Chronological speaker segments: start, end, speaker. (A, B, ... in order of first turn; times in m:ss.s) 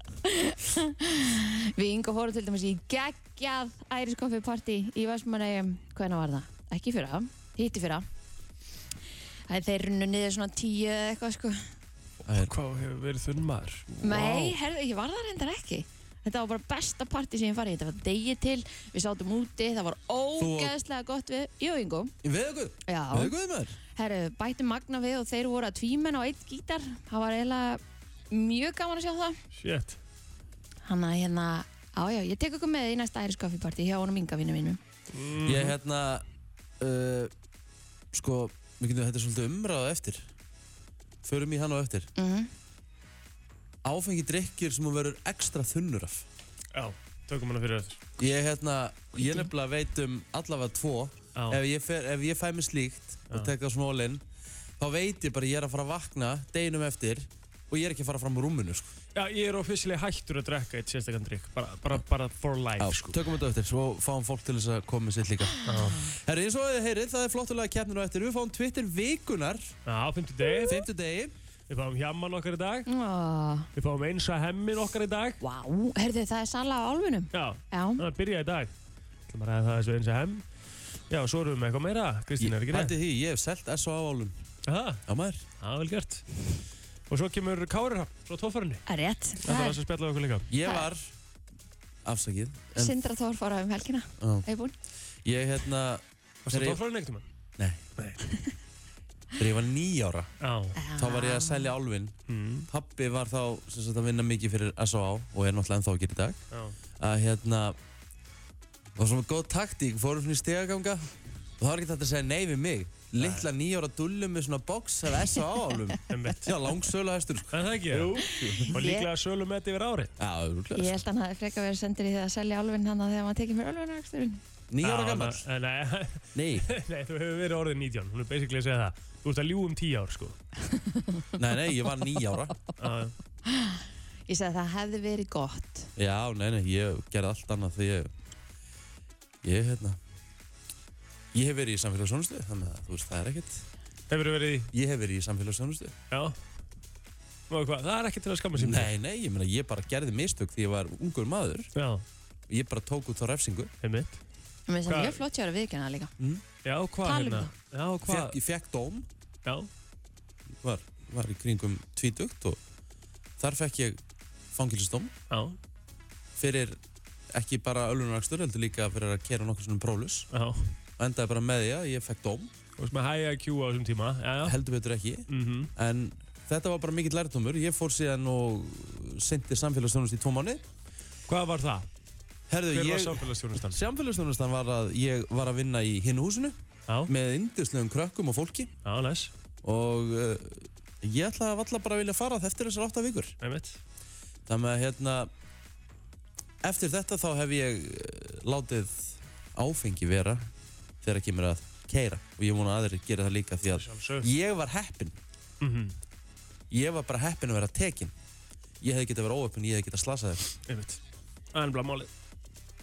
0:00.2-0:08.0 A
0:09.5-0:11.7 A
0:12.2-0:12.5 B
0:12.4-0:14.6 C
0:14.0-0:22.1 A
0:20.4-0:20.7 B
0:22.2-0:23.8 B
0:22.8-0:29.4 A
0:29.5-0:30.0 C
0:30.8-0:34.8 A
0:35.1-0:35.7 C
0:35.4-0:36.2 B
0:36.8-0:37.3 B
0:38.1-0:40.3 B
0:41.2-0:42.1 B
0:42.2-0:42.5 A
0:43.8-0:46.2 B
0:46.7-0:48.0 C
0:48.2-0:54.2 B
0:49.1-0:49.5 A
0:54.8-0:58.9 B
0:59.1-1:03.2 C
1:02.8-1:05.6 B
1:05.6-1:06.1 C
1:06.1-1:09.7 B
1:09.8-1:10.8 C
1:10.5-1:10.8 A
1:10.7-1:11.3 B
1:11.7-1:12.9 C
1:12.9-1:13.7 A
1:13.8-1:15.4 C
1:15.4-1:18.0 A
1:17.3-1:18.7 C
1:19.3-1:20.4 C
1:21.1-1:22.9 C
1:22.4-1:24.3 B
1:24.7-1:25.0 C
1:25.1-1:25.4 B
1:25.6-1:26.2 C
1:27.1-1:28.8 C
1:28.9-1:29.8 A
1:29.4-1:30.5 C
1:30.5-1:31.1 B
1:30.6-1:30.9 A
1:32.0-1:32.9 B
1:32.7-1:34.7 A
1:34.2-1:34.4 B
1:35.2-1:36.8 B
1:36.4-1:37.2 C
1:39.4-1:40.3 B
1:40.4-1:40.8 C
1:40.7-1:41.7 A
1:41.0-1:42.1 B
1:42.3-1:42.7 C
1:42.7-1:46.4 B
1:47.0-1:47.8 B
1:49.0-1:58.7 B
1:53.2-1:53.5 C
1:56.1-1:56.5 C
1:57.5-2:00.1 C
1:58.2-1:59.1 A
2:00.2-2:01.0 B
2:00.7-2:04.4 A
2:04.7-2:05.4 B
2:04.8-2:10.4 C
2:06.3-2:06.6 B
2:11.0-2:11.2 A
2:11.4-2:12.6 B
2:12.8-2:13.2 C
2:13.4-2:15.9 A
2:16.0-2:18.1 B
2:19.4-2:20.0 B
2:21.3-2:23.6 B
2:24.1-2:24.7 C
2:24.7-2:25.9 B
2:26.1-2:26.4 C
2:27.5-2:28.9 C
2:28.6-2:31.7 B
2:31.7-2:32.0 C
2:32.5-2:33.7 B
2:33.8-2:34.2 C
2:34.7-2:36.1 A
2:34.9-2:35.2 C
2:36.6-2:38.4 C
2:37.0-2:37.5 A
2:38.0-2:39.0 B
2:40.6-2:42.6 B
2:43.4-2:44.0 B
2:44.5-2:45.1 B
2:45.3-2:45.6 C
2:46.4-2:46.8 B
2:47.3-2:50.3 B
2:50.3-2:50.7 C
2:51.0-2:52.5 B
2:52.8-2:54.6 C
2:54.4-3:00.6 B
2:55.3-2:55.7 C
3:01.3-3:01.9 C
3:02.5-3:06.6 B
3:02.7-3:03.8 C
3:07.1-3:08.7 B
3:08.8-3:09.3 C
3:09.6-3:13.4 B
3:13.4-3:13.8 C
3:14.5-3:15.3 B
3:16.6-3:20.5 B
3:21.0-3:25.2 B
3:23.7-3:24.3 C
3:25.6-3:25.9 C
3:26.7-3:28.1 B
3:28.8-3:30.4 B
3:30.6-3:31.0 C
3:31.5-3:32.1 C